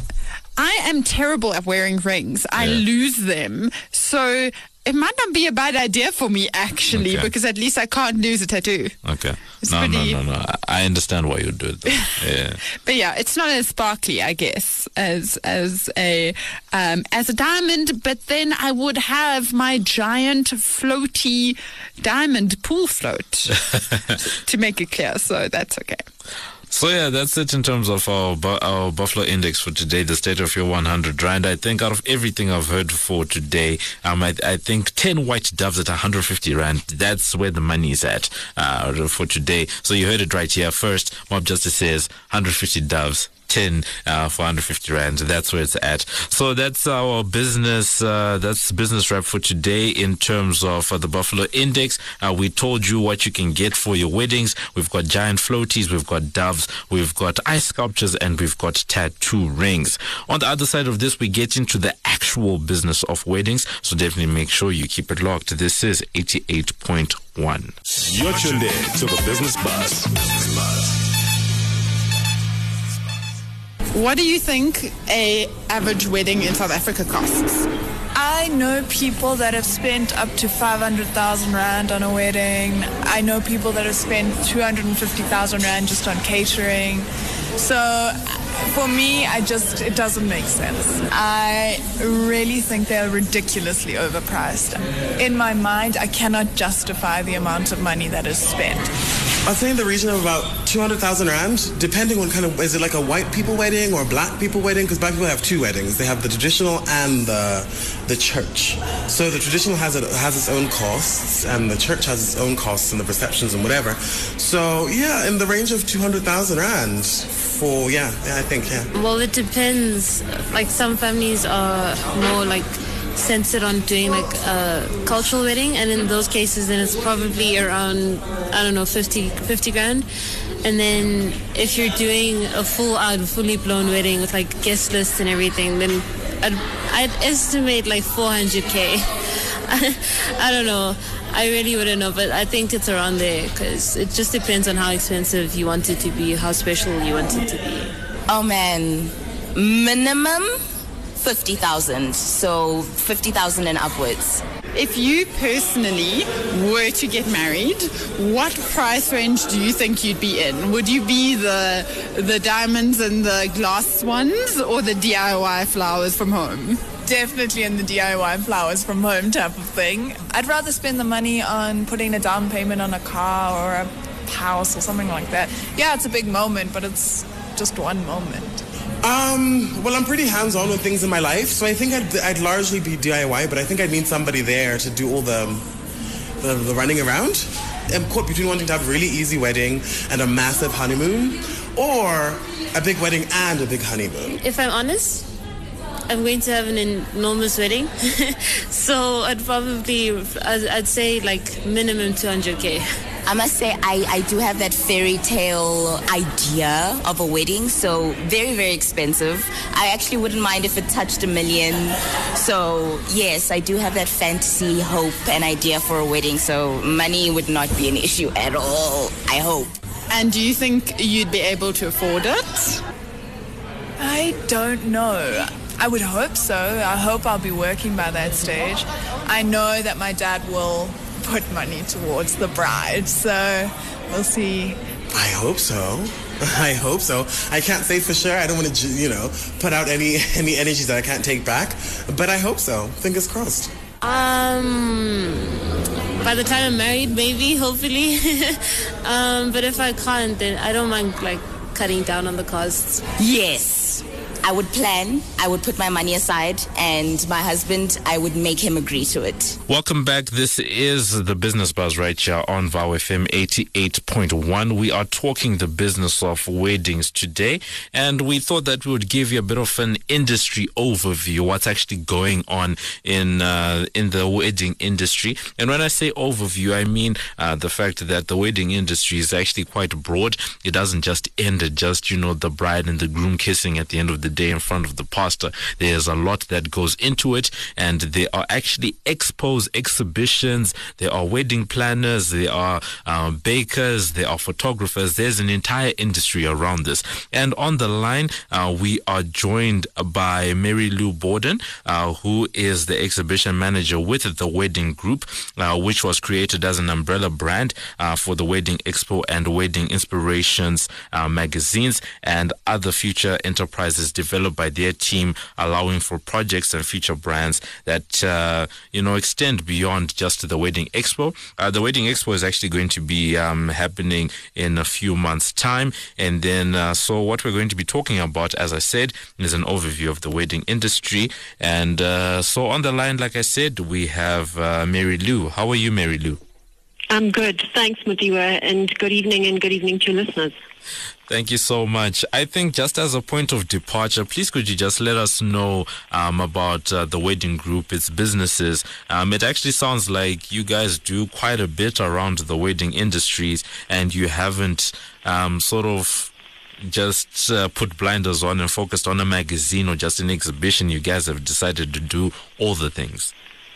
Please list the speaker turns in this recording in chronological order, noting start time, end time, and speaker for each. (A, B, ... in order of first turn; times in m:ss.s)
0:00.6-0:09.0 A
0:02.6-0:02.8 B
0:06.9-0:07.3 B
0:09.0-0:12.6 B
0:09.6-0:10.2 A
0:12.8-0:23.6 A
0:24.2-0:26.0 A
0:26.7-1:07.8 B
1:08.0-1:11.0 C
1:13.9-1:17.7 A
1:18.1-1:38.9 D
1:39.4-1:58.9 E
1:58.9-2:10.1 F
2:10.6-2:27.9 F
2:28.3-2:30.6 G
2:31.2-2:34.4 G
2:34.8-2:46.8 A
2:47.0-2:58.6 D
2:59.0-3:05.7 E
3:06.4-3:14.4 E
3:14.4-3:15.3 F
3:16.1-3:22.8 F
3:23.2-3:39.7 G
3:40.1-3:42.8 A
3:44.0-3:54.8 D
3:55.1-4:03.7 E
4:04.0-4:13.0 F
4:13.2-4:19.6 G
4:19.7-5:36.4 B
5:37.1-5:40.6 H
5:41.3-6:03.3 B